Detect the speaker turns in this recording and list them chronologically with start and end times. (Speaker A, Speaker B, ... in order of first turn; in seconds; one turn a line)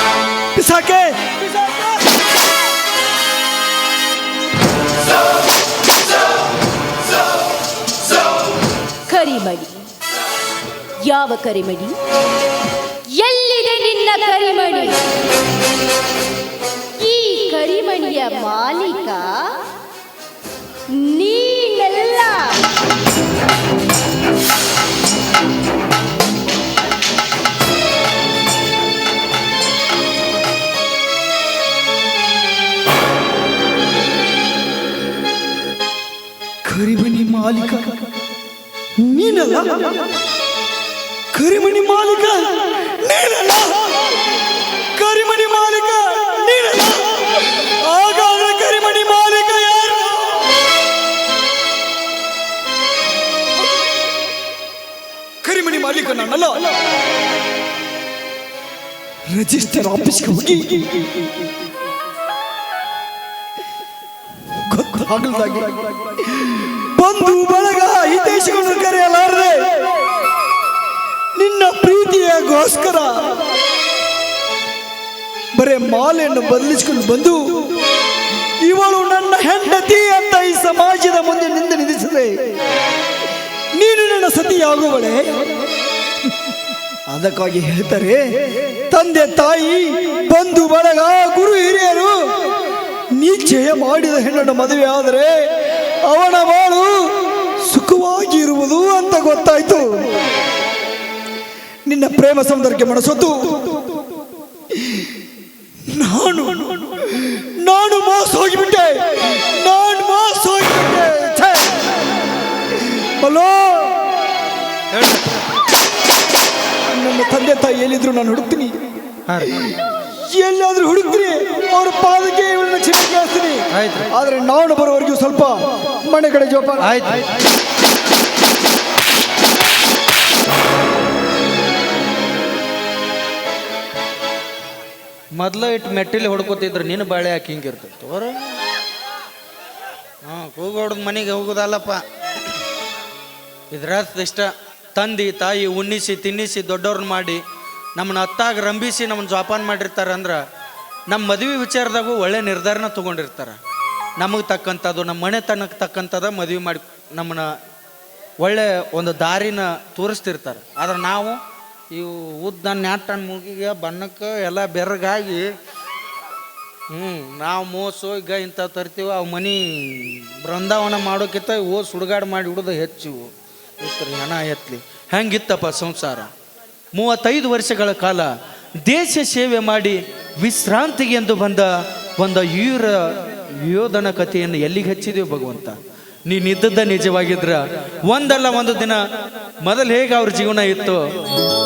Speaker A: 0.6-2.0
Speaker B: 9.1-9.8
Speaker B: 11.0-12.0
Speaker B: 13.1-15.0
Speaker B: 17.0-19.5
Speaker B: 20.9-22.6
Speaker A: 36.6-38.0
Speaker A: 39.0-40.0
Speaker A: 41.3-44.4
Speaker A: 45.0-50.5
Speaker A: 55.4-56.7
Speaker A: 59.3-61.5
Speaker A: 64.7-69.9
Speaker A: 71.3-73.4
Speaker A: 75.6-77.8
Speaker A: 78.6-82.6
Speaker A: 83.8-85.7
Speaker A: 87.1-92.2
Speaker A: 93.2-100.1
Speaker A: 101.9-104.0
Speaker A: 104.7-105.2
Speaker A: 105.9-111.9
Speaker A: 112.7-114.1
Speaker C: 114.9-115.6
Speaker A: 116.8-118.8
Speaker C: 119.3-119.8
Speaker A: 119.4-127.0
Speaker C: 123.7-124.1
Speaker C: 126.8-127.4
Speaker C: 135.4-138.6
Speaker C: 140.2-142.0
Speaker C: 143.7-147.4
Speaker C: 148.0-150.4
Speaker C: 151.1-153.6
Speaker C: 154.2-157.5
Speaker C: 158.4-161.4
Speaker C: 161.9-165.5
Speaker C: 166.9-173.2
Speaker C: 173.8-176.3
Speaker C: 177.0-178.3
Speaker C: 178.9-181.7
Speaker C: 182.2-183.1
Speaker C: 183.6-185.8
Speaker C: 186.3-189.0
Speaker C: 189.6-191.0